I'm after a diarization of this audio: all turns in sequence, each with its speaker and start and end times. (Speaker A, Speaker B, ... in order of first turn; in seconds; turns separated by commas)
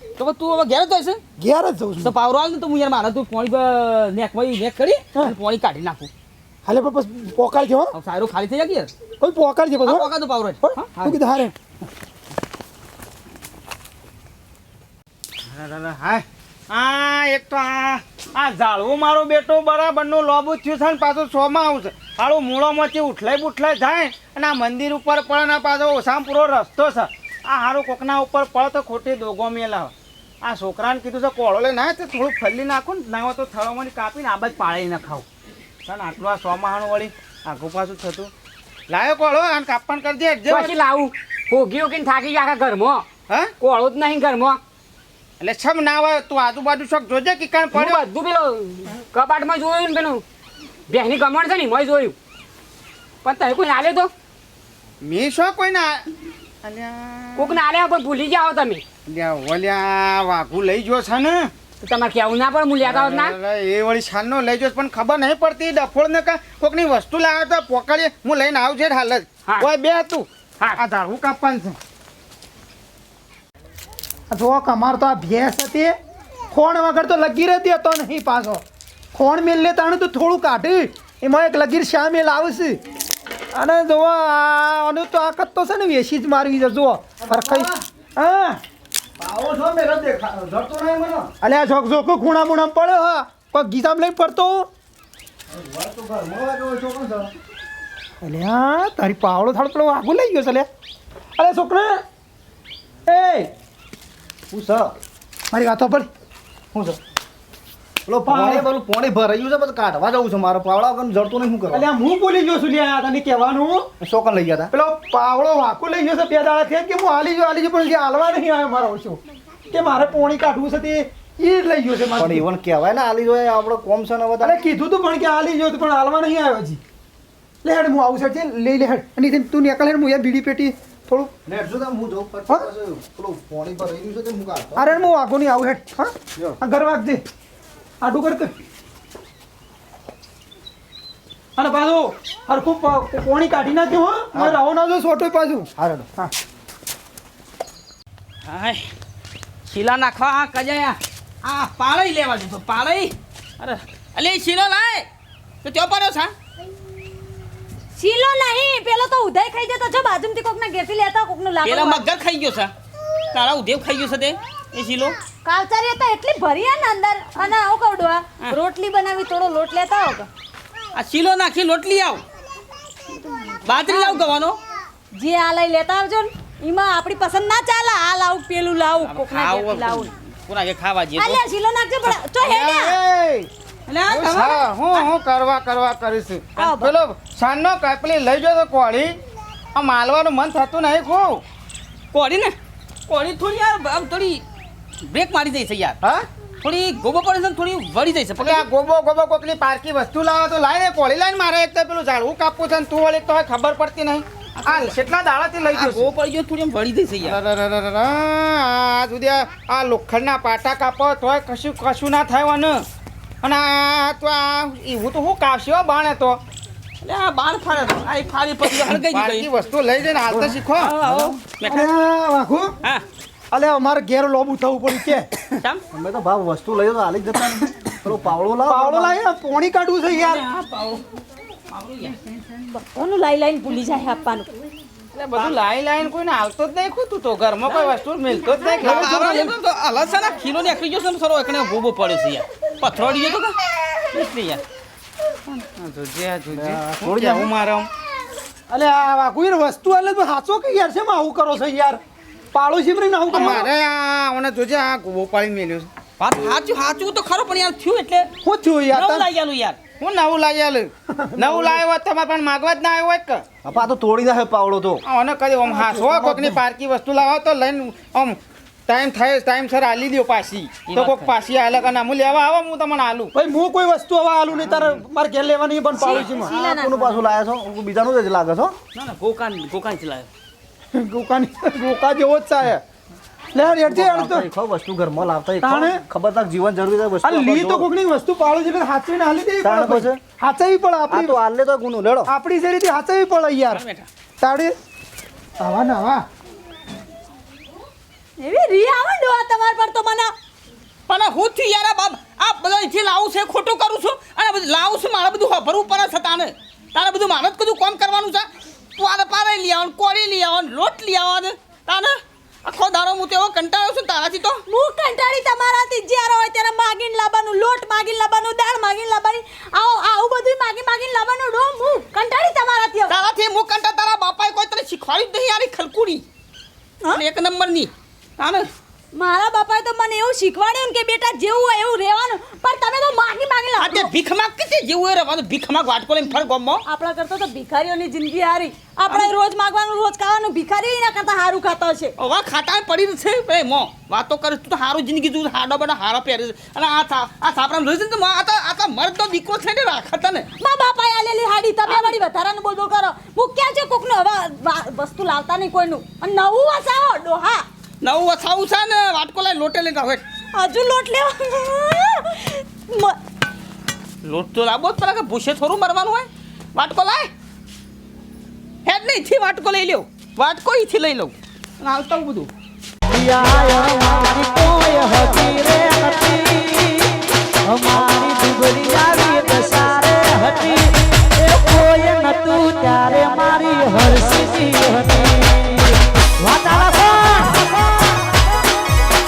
Speaker A: 0.2-1.2, Speaker B: 1.4-2.1, Speaker A: 2.0-6.1, Speaker B: 6.7-7.9, Speaker A: 7.9-8.9, Speaker B: 9.2-10.1, Speaker A: 9.8-11.2, Speaker B: 10.6-11.5, Speaker C: 15.4-35.2, Speaker C: 35.9-38.3, Speaker C: 38.9-40.7, Speaker D: 40.5-43.0, Speaker D: 43.6-44.6, Speaker C: 45.4-48.0, Speaker D: 47.7-50.2, Speaker D: 50.9-52.1, Speaker D: 53.2-54.1, Speaker C: 55.0-56.0, Speaker C: 56.6-57.6, Speaker D: 57.4-58.8, Speaker C: 59.0-61.5, Speaker D: 61.8-63.4, Speaker C: 62.8-71.8, Speaker B: 74.3-75.9, Speaker B: 76.5-78.6, Speaker B: 79.1-82.8, Speaker B: 83.5-88.6, Speaker E: 87.2-87.8, Speaker E: 89.2-91.3, Speaker B: 91.4-94.7, Speaker E: 95.5-97.3, Speaker B: 98.2-100.7, Speaker B: 101.4-102.0, Speaker B: 103.1-103.5, Speaker E: 104.5-104.9, Speaker B: 105.5-106.1, Speaker E: 106.7-107.0, Speaker E: 108.0-111.8, Speaker B: 108.2-108.7, Speaker B: 111.7-113.9, Speaker E: 114.0-114.7, Speaker B: 114.7-122.4, Speaker E: 122.1-124.6, Speaker B: 124.4-126.8, Speaker B: 127.6-131.3, Speaker E: 131.4-135.1, Speaker B: 134.8-137.2, Speaker B: 138.0-138.5, Speaker B: 141.6-146.3, Speaker E: 144.3-144.6, Speaker E: 145.8-146.1, Speaker A: 148.4-148.9, Speaker A: 149.7-155.1, Speaker A: 155.6-156.3, Speaker F: 157.9-162.1, Speaker A: 161.6-162.7, Speaker A: 163.3-165.2, Speaker F: 165.4-170.3, Speaker A: 170.9-172.2, Speaker F: 173.2-174.2, Speaker A: 173.7-174.6, Speaker F: 175.1-180.1, Speaker A: 179.0-181.4, Speaker F: 181.2-182.9, Speaker C: 182.4-183.5, Speaker A: 183.9-185.1, Speaker C: 184.1-189.1, Speaker F: 186.6-186.9, Speaker C: 189.7-191.4, Speaker A: 192.1-192.5, Speaker A: 193.1-194.4, Speaker A: 195.0-196.0, Speaker A: 196.6-198.7, Speaker C: 198.4-206.1, Speaker A: 204.6-204.9, Speaker A: 205.7-207.4, Speaker C: 207.2-212.8, Speaker C: 213.4-216.4, Speaker A: 217.0-219.5, Speaker C: 218.7-221.2, Speaker E: 220.3-220.6, Speaker A: 220.7-221.9, Speaker B: 221.7-222.7, Speaker B: 223.5-225.3, Speaker E: 225.9-229.2, Speaker B: 228.7-230.4, Speaker A: 230.1-231.0, Speaker A: 231.7-232.2, Speaker F: 232.6-234.5, Speaker A: 235.1-235.6, Speaker C: 235.3-239.3, Speaker A: 237.6-238.0, Speaker A: 238.5-243.6, Speaker B: 238.8-239.5, Speaker A: 244.1-244.6, Speaker C: 245.5-247.9, Speaker E: 246.5-247.5, Speaker B: 248.7-252.0, Speaker B: 252.5-253.7, Speaker C: 253.3-255.9, Speaker A: 253.3-253.7, Speaker A: 256.2-258.3, Speaker B: 258.4-259.3, Speaker A: 258.9-259.8, Speaker C: 260.0-263.4, Speaker B: 261.2-261.8, Speaker E: 263.6-265.0, Speaker C: 265.0-273.3, Speaker B: 265.6-266.6, Speaker A: 270.9-271.3, Speaker B: 273.3-276.5, Speaker F: 275.9-277.2, Speaker E: 276.1-278.8, Speaker A: 278.9-280.3, Speaker B: 280.9-282.8, Speaker B: 283.5-284.4, Speaker E: 283.6-287.9, Speaker B: 285.6-286.0, Speaker B: 287.2-291.4, Speaker E: 289.6-290.2, Speaker E: 291.1-292.3, Speaker B: 292.3-293.8, Speaker A: 293.7-294.1, Speaker B: 294.4-294.7, Speaker B: 295.6-296.2, Speaker F: 298.4-300.3, Speaker A: 301.1-314.6, Speaker F: 314.7-323.1, Speaker A: 323.1-326.2, Speaker A: 327.1-328.7, Speaker F: 329.1-334.1, Speaker A: 333.8-336.8, Speaker F: 336.8-342.1, Speaker A: 342.2-350.5, Speaker F: 350.6-357.6, Speaker A: 358.0-360.2, Speaker F: 360.5-363.2, Speaker A: 364.2-367.3, Speaker A: 368.8-372.5, Speaker G: 373.1-387.7